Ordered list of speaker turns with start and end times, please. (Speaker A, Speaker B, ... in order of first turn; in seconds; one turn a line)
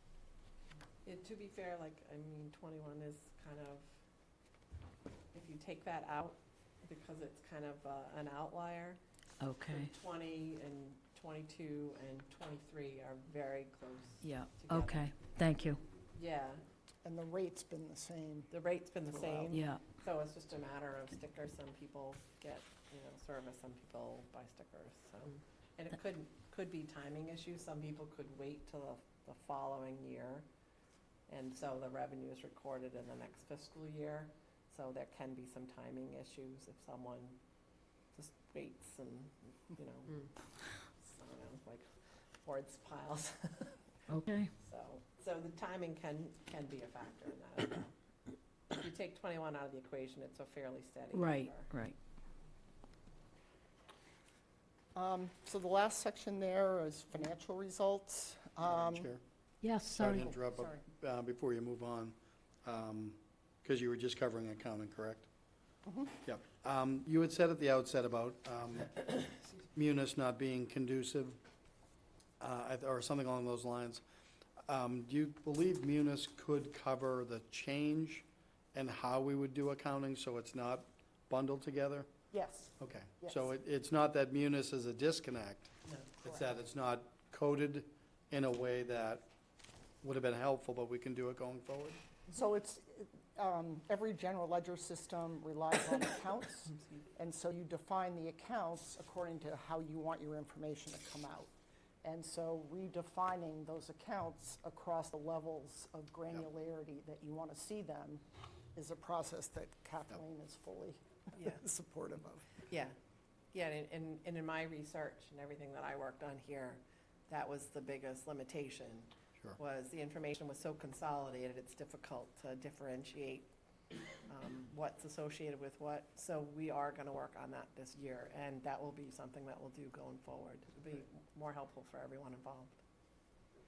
Speaker A: 1.0-3.9
Speaker A: 5.3-9.0
Speaker B: 9.4-9.9
Speaker A: 9.6-15.1
Speaker B: 14.2-15.8
Speaker A: 16.1-16.6
Speaker C: 17.0-18.5
Speaker A: 18.5-30.4
Speaker C: 19.1-19.6
Speaker B: 19.5-19.9
Speaker A: 31.3-37.4
Speaker A: 38.1-40.3
Speaker A: 41.0-41.9
Speaker A: 42.4-43.8
Speaker B: 44.1-44.5
Speaker A: 44.6-47.9
Speaker A: 48.7-51.7
Speaker B: 51.1-52.0
Speaker C: 54.9-59.1
Speaker D: 58.6-59.2
Speaker B: 59.6-60.3
Speaker D: 59.9-65.3
Speaker C: 60.1-60.8
Speaker C: 65.8-66.1
Speaker D: 66.2-71.4
Speaker D: 72.4-74.0
Speaker D: 74.6-82.1
Speaker C: 82.3-83.5
Speaker D: 82.8-89.3
Speaker D: 90.0-92.0
Speaker C: 92.3-101.5
Speaker C: 102.0-108.2
Speaker C: 108.7-112.5
Speaker A: 112.7-112.9
Speaker A: 113.5-123.5
Speaker A: 124.3-132.8